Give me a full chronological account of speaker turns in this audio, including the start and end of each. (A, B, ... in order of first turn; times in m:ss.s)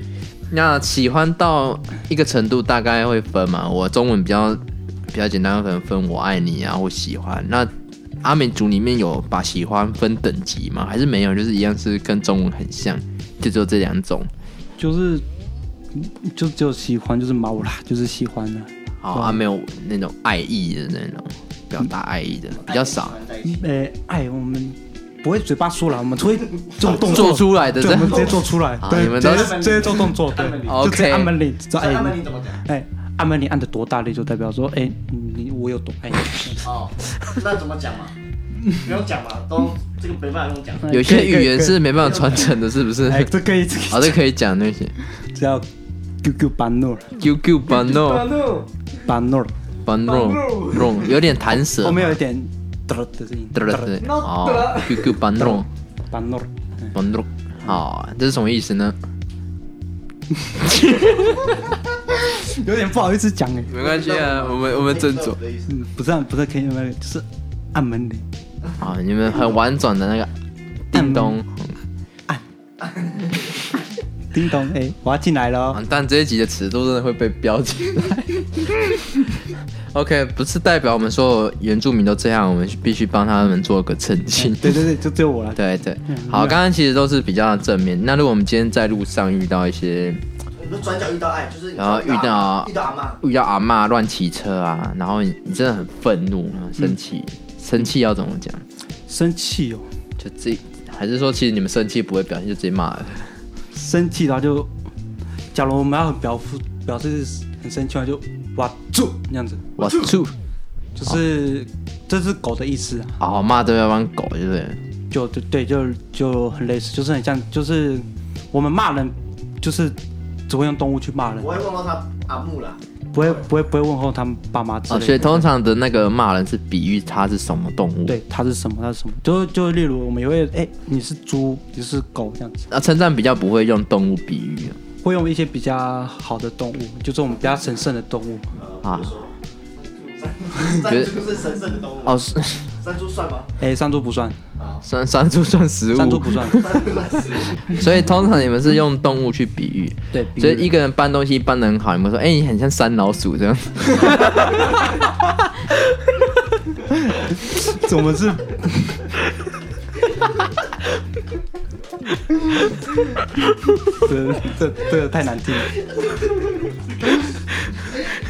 0:00.5-0:07.7 A
0:08.2-0:14.3 A
0:14.8-0:15.2 B
0:15.9-0:19.4 B
0:19.0-0:23.2 A
0:22.6-0:23.7 C
0:23.4-0:36.7 B
0:26.8-0:29.7 A
0:29.0-0:30.9 C
0:30.6-0:31.4 A
0:31.7-0:32.6 C
0:36.6-0:38.1 C
0:38.7-0:41.0 C
0:40.8-0:41.8 B
0:40.9-0:43.3 A
0:42.0-0:42.6 C
0:43.0-0:44.2 B
0:43.9-0:44.9 A
0:45.1-0:45.7 B
0:46.2-0:47.1 B
0:47.2-0:48.3 A
0:47.7-0:48.7 D
0:49.1-0:49.5 B
0:49.9-0:52.2 A
0:49.9-0:51.1 D
0:51.8-0:54.0 B
0:53.5-0:55.7 A
0:54.0-0:55.2 D
0:55.4-0:56.9 B
0:56.9-0:59.0 A
1:00.3-1:01.5 B
1:00.7-1:01.4 A
1:02.1-1:03.7 B
1:03.7-1:05.4 A
1:03.8-1:05.7 C
1:05.7-1:08.2 B
1:08.8-1:10.3 A
1:10.9-1:11.8 A
1:10.9-1:11.4 B
1:14.3-1:15.8 B
1:15.7-1:19.4 A
1:19.9-1:24.8 A
1:24.4-1:26.6 B
1:25.6-1:30.2 A
1:30.6-1:33.2 C
1:31.8-1:38.6 A
1:39.1-1:39.9 B
1:40.2-1:43.3 A
1:43.7-1:44.7 B
1:45.5-1:50.1 B
1:49.8-1:50.3 A
1:51.0-1:53.2 B
1:53.2-1:54.8 A
1:55.1-2:00.0 B
2:00.5-2:01.6 B
2:01.3-2:03.4 C
2:03.1-2:05.5 B
2:04.9-2:08.2 A
2:08.1-2:12.7 B
2:12.7-2:14.8 A
2:15.0-2:18.5 B
2:18.6-2:23.5 C
2:18.8-2:19.2 A
2:20.8-2:21.3 A
2:22.0-2:22.6 A
2:23.6-2:24.4 B
2:24.6-2:24.8 C
2:24.8-2:26.8 A
2:26.0-2:26.9 B
2:26.5-2:27.8 C
2:27.7-2:34.9 A
2:30.1-2:30.8 B
2:36.9-2:39.1 B
2:42.3-2:42.6 B
2:43.9-2:45.8 B
2:47.3-2:48.1 A